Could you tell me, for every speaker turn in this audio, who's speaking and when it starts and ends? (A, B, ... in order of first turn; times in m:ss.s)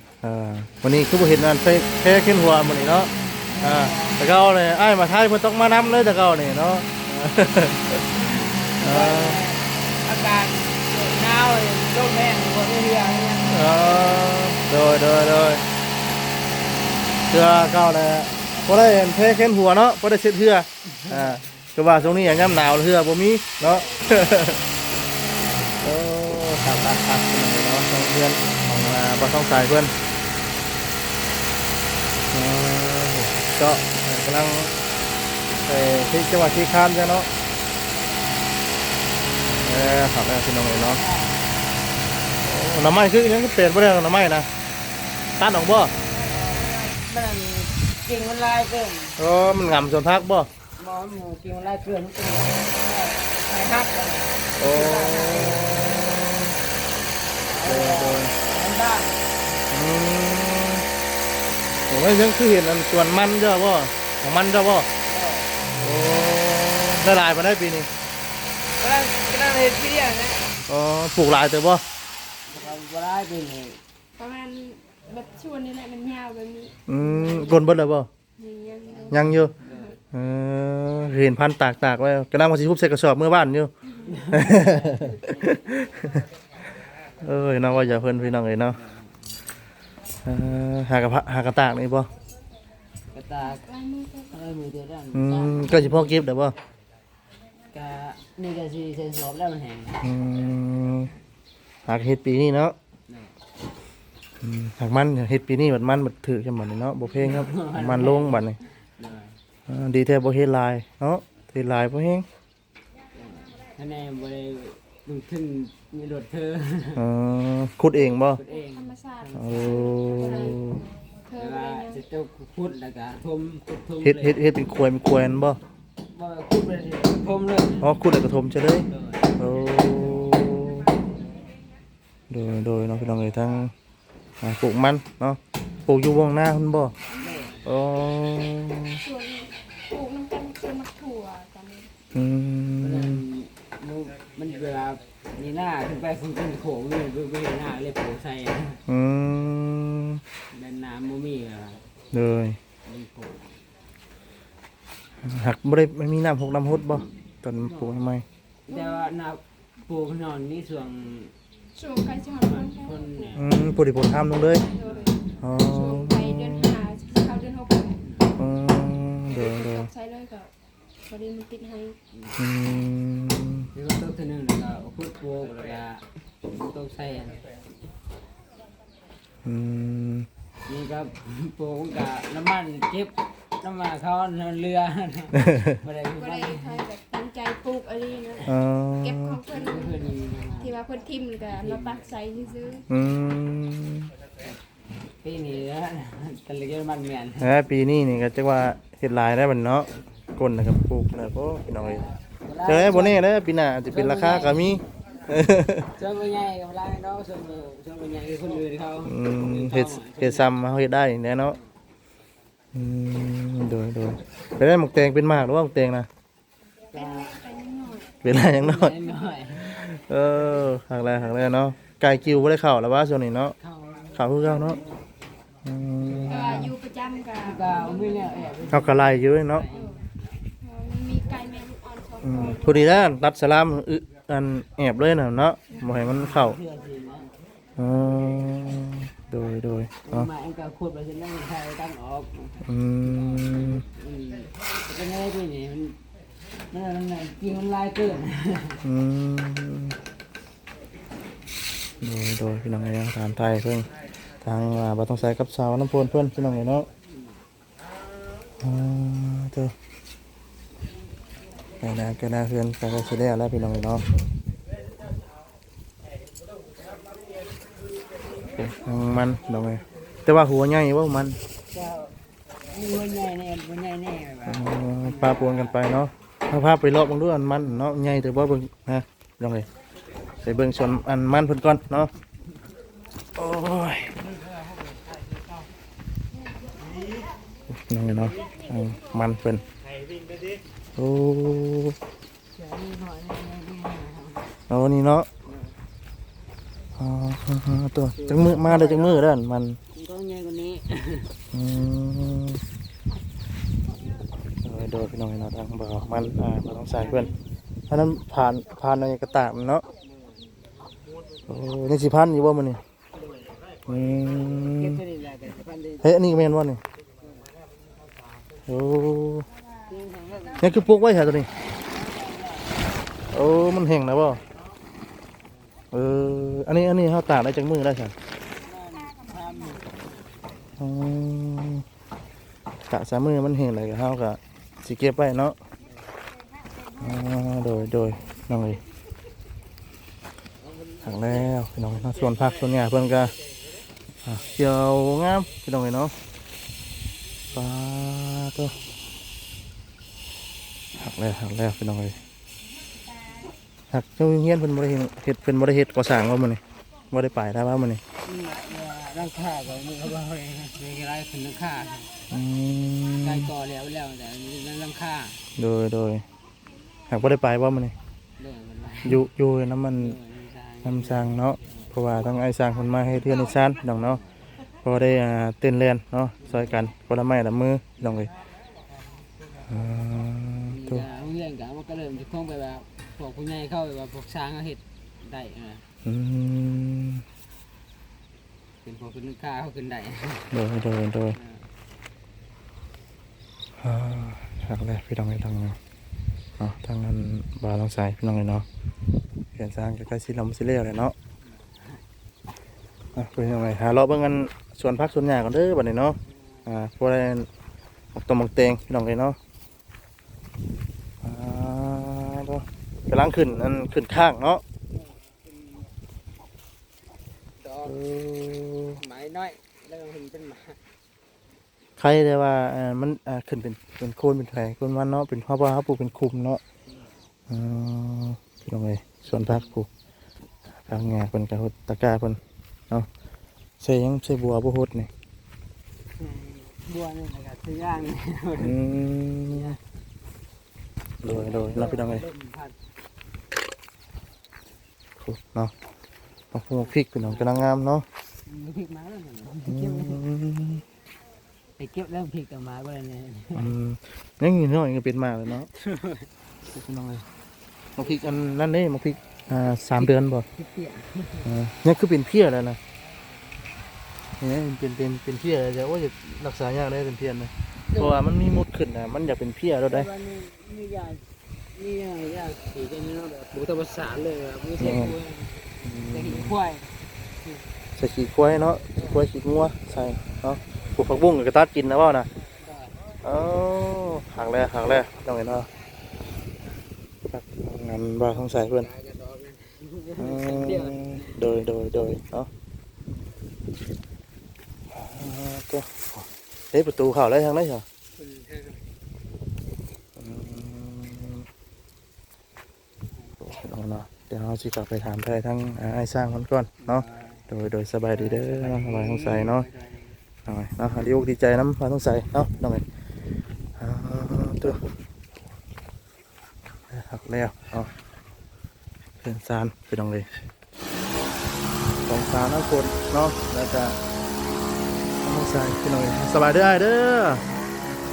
0:00.2-0:08.0 A
0:03.5-0:04.2 B
0:08.1-0:13.8 B
0:08.8-0:09.4 A
0:13.5-0:15.6 A
0:17.3-0:24.6 A
0:21.0-0:21.4 B
0:25.8-0:29.9 A
0:32.3-0:34.7 A
0:35.6-0:37.3 A
0:38.1-0:38.3 B
0:39.6-0:41.0 A
0:40.7-0:41.6 B
0:42.4-0:44.5 A
0:45.4-0:45.9 A
0:46.1-0:49.2 B
0:49.2-0:50.5 A
0:50.8-0:55.8 B
0:54.6-0:56.6 A
0:57.4-0:59.6 B
0:57.6-0:58.3 A
0:59.7-1:00.9 A
1:01.9-1:04.9 A
1:05.1-1:05.7 B
1:05.8-1:07.9 A
1:08.8-1:10.6 B
1:10.7-1:11.8 A
1:12.5-1:13.8 B
1:14.2-1:17.7 C
1:16.9-1:18.1 A
1:18.4-1:20.0 C
1:19.1-1:19.5 A
1:19.6-1:20.0 B
1:20.1-1:23.7 A
1:24.1-1:25.1 B
1:24.3-1:26.2 A
1:27.2-1:28.8 A
1:28.8-1:29.1 B
1:30.2-1:32.1 A
1:33.1-1:33.7 B
1:33.4-1:34.3 C
1:34.2-1:36.3 B
1:35.1-1:36.6 A
1:37.7-1:40.1 B
1:40.0-1:41.1 A
1:41.9-1:42.8 A
1:43.1-1:43.4 B
1:44.4-1:48.6 A
1:47.1-1:49.4 B
1:49.7-1:52.3 A
1:53.2-1:57.0 B
1:57.0-1:58.4 A
1:58.4-2:00.0 B
1:58.5-2:00.8 C
1:59.4-2:00.8 A
2:01.3-2:02.0 C
2:01.3-2:04.4 B
2:04.0-2:05.6 A
2:06.1-2:08.0 B
2:07.8-2:10.9 A
2:08.9-2:09.3 B
2:12.3-2:13.7 A
2:14.4-2:16.9 A
2:17.2-2:17.7 B
2:17.6-2:19.0 A
2:19.0-2:21.9 C
2:22.1-2:23.2 A
2:22.8-2:28.8 B
2:28.9-2:30.2 A
2:30.5-2:31.8 B
2:32.1-2:32.6 A
2:32.8-2:33.5 B
2:35.2-2:38.2 A
2:37.6-2:38.1 B
2:38.7-2:41.4 B
2:38.7-2:39.1 C
2:41.8-2:43.4 C
2:42.4-2:43.5 B
2:43.4-2:44.6 A
2:44.6-2:48.0 C
2:44.8-2:45.2 B
2:45.4-2:46.8 A
2:48.4-2:49.9 A
2:49.3-2:50.5 C
2:51.1-2:52.0 C
2:52.4-2:53.7 A
2:53.7-2:57.5 B
2:59.4-3:00.3 A
3:00.7-3:06.8 B
3:05.4-3:05.8 A
3:06.2-3:10.0 C
3:08.4-3:09.4 A
3:09.5-3:10.8 B
3:10.6-3:12.9 C
3:11.5-3:12.1 B
3:12.9-3:14.1 A
3:15.2-3:17.5 B
3:17.4-3:22.1 A
3:21.8-3:23.3 B
3:22.6-3:25.9 A
3:23.9-3:24.8 B
3:25.9-3:30.6 B
3:29.0-3:31.6 A
3:32.7-3:36.1 A
3:36.9-3:38.1 C
3:37.0-3:37.4 B
3:38.2-3:38.9 A
3:38.3-3:39.8 B
3:39.7-3:43.6 A
3:43.6-3:44.8 B
3:44.1-3:44.8 A
3:45.6-3:46.8 A
3:46.0-3:46.7 B
3:46.2-3:48.7 C
3:47.4-3:50.2 B
3:48.7-3:49.7 A
3:49.7-3:50.0 C
3:50.5-3:53.0 C
3:52.2-3:56.6 A
3:56.1-3:57.3 B
3:57.8-4:00.3 A
4:00.0-4:02.6 B
4:02.6-4:03.8 A
4:03.2-4:06.0 B
4:06.7-4:08.8 B
4:08.8-4:10.0 A
4:12.0-4:13.9 A
4:14.4-4:16.9 A
4:18.6-4:19.7 A
4:21.8-4:24.0 A
4:28.6-4:31.4 A
4:31.7-4:32.2 B
4:32.7-4:35.8 B
4:34.5-4:39.7 A
4:40.4-4:42.1 A
4:43.4-4:44.2 A
4:47.7-4:49.6 A
4:51.0-4:52.0 A
4:52.5-4:54.6 B
4:54.7-4:55.3 A
4:55.5-4:55.7 B
4:57.0-4:59.8 A
4:58.2-4:59.2 B
4:59.9-5:01.4 B
5:01.5-5:02.6 A
5:04.6-5:07.3 A
5:07.0-5:07.4 B
5:07.9-5:09.8 A
5:11.5-5:12.8 A
5:13.9-5:15.0 A
5:14.8-5:16.1 B
5:16.0-5:16.8 A
5:18.7-5:19.5 A
5:19.8-5:20.7 B
5:20.6-5:21.5 A
5:21.8-5:22.9 B
5:23.3-5:24.4 A
5:25.9-5:28.2 A
5:28.6-5:30.1 B
5:30.8-5:31.8 A
5:32.9-5:35.6 A
5:37.0-5:38.8 A
5:41.0-5:43.3 A
5:44.2-5:46.1 A
5:47.5-5:48.8 A
5:51.0-5:52.2 A
5:53.9-5:58.0 A
5:58.2-6:02.1 B
6:02.3-6:03.5 A
6:03.2-6:05.4 B
6:05.6-6:06.2 A
6:07.1-6:07.9 A
6:08.4-6:09.3 B
6:09.0-6:10.2 A
6:09.9-6:11.8 B
6:10.8-6:14.2 A
6:13.9-6:14.3 B
6:14.8-6:18.3 A
6:19.7-6:21.1 A
6:20.7-6:25.8 B
6:26.0-6:27.2 A
6:28.8-6:30.5 B
6:30.5-6:31.4 A
6:31.4-6:31.7 B
6:33.8-6:35.8 A
6:36.6-6:38.7 A
6:39.5-6:41.1 A
6:41.6-6:42.0 B
6:43.2-6:47.5 A
6:48.2-6:49.4 A
6:51.2-6:54.6 A
6:55.0-6:55.9 B
6:57.6-6:58.0 B
6:57.8-6:59.0 A
6:59.0-7:00.8 B
7:02.0-7:06.6 A
7:07.5-7:09.9 A
7:10.9-7:12.4 A
7:13.8-7:15.1 A
7:16.2-7:18.8 B
7:18.6-7:19.8 A
7:19.5-7:19.8 B
7:21.2-7:22.2 A
7:21.3-7:22.8 B
7:25.2-7:25.7 A
7:26.5-7:28.0 A
7:26.8-7:27.6 B
7:28.5-7:30.2 B
7:29.7-7:30.8 A
7:31.8-7:33.8 B
7:33.6-7:35.7 A
7:35.7-7:36.3 B
7:36.7-7:37.3 A
7:38.0-7:40.4 A
7:40.0-7:41.5 B
7:41.4-7:42.8 A
7:44.4-7:50.1 A
7:47.9-7:48.2 B
7:49.9-7:57.6 B
7:54.8-7:55.2 A
7:55.8-7:56.6 A
7:58.0-8:02.3 A
8:02.6-8:03.0 B
8:03.2-8:05.7 A
8:07.2-8:08.9 A
8:08.2-8:11.4 B
8:10.2-8:12.5 A
8:14.9-8:17.8 A
8:18.2-8:18.8 B
8:20.2-8:21.4 A
8:23.4-8:29.7 A
8:26.8-8:27.5 B
8:28.1-8:30.2 B
8:30.5-8:32.8 A
8:33.8-8:34.8 A
8:36.9-8:37.9 A
8:39.2-8:40.3 A
8:42.1-8:44.0 A
8:45.2-8:47.4 A